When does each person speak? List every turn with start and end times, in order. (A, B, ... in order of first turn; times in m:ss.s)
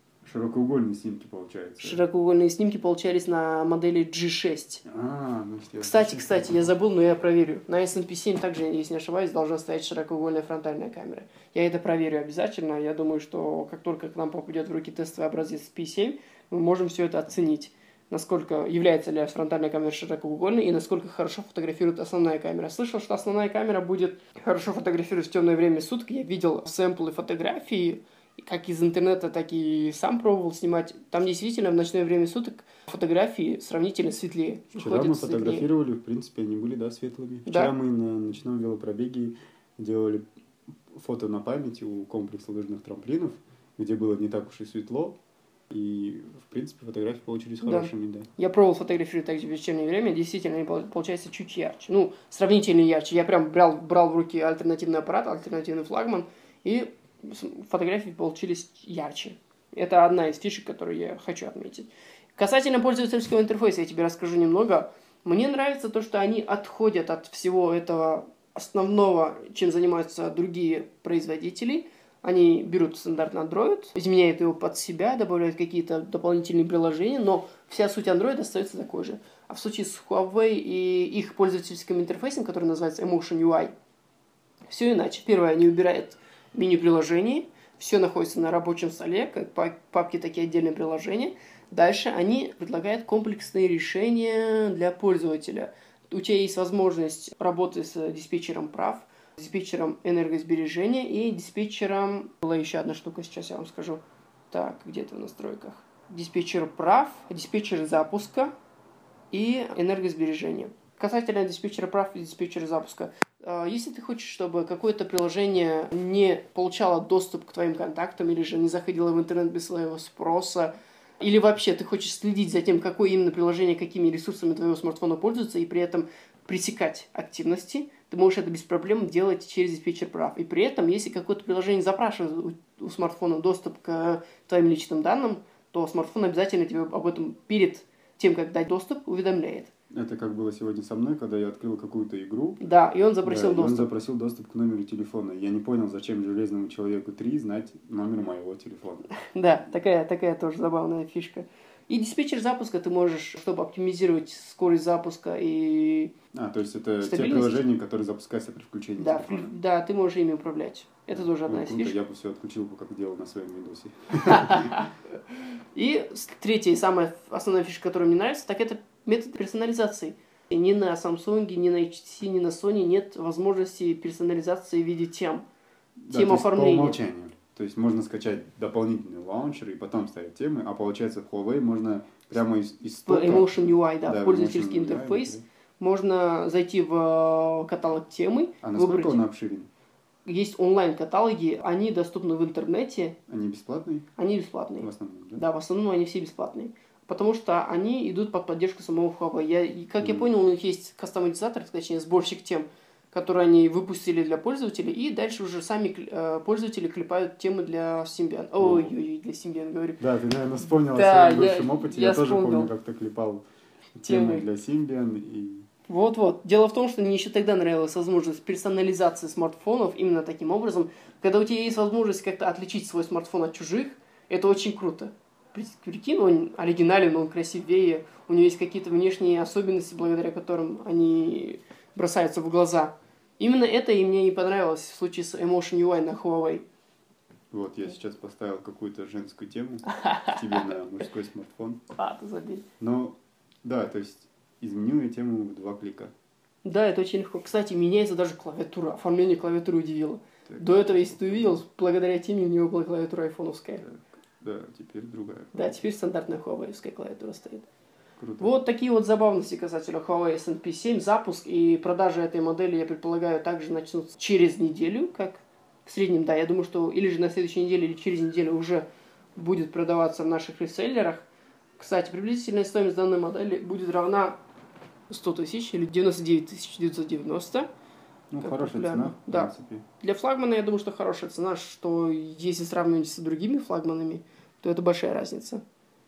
0:00.2-0:02.0 A
0:01.8-0:04.8 B
0:04.8-0:06.7 A
0:05.8-0:35.7 B
0:34.8-0:40.2 A
0:40.9-0:45.2 A
0:45.7-0:48.3 A
0:47.6-1:23.7 B
1:24.7-1:48.5 B
1:49.3-2:19.7 B
2:19.9-2:22.6 A
2:22.6-2:23.9 B
2:23.2-2:29.1 A
2:29.2-2:36.1 B
2:36.3-2:39.5 A
2:37.0-2:37.6 B
2:39.0-2:42.0 B
2:41.1-2:44.9 A
2:44.3-2:44.9 B
2:45.7-2:55.4 B
2:56.0-3:05.4 A
2:56.1-2:57.0 B
3:03.1-3:09.2 B
3:08.6-3:09.7 A
3:10.3-3:13.2 B
3:13.3-3:14.1 A
3:14.2-3:30.0 B
3:14.8-3:15.4 A
3:20.0-3:20.3 A
3:28.6-3:29.0 A
3:30.0-3:33.4 A
3:30.9-3:32.7 B
3:34.0-3:35.7 A
3:34.1-3:34.4 B
3:35.9-3:56.7 B
3:57.5-4:01.8 A
3:59.9-4:00.6 B
4:01.9-4:02.6 B
4:02.8-4:06.1 A
4:06.6-4:13.8 B
4:10.5-4:11.6 A
4:13.8-4:15.8 A
4:15.5-4:17.7 B
4:18.2-4:18.5 A
4:18.4-4:31.3 B
4:31.8-4:34.4 B
4:35.1-4:37.7 B
4:38.3-4:39.8 A
4:38.4-4:45.6 B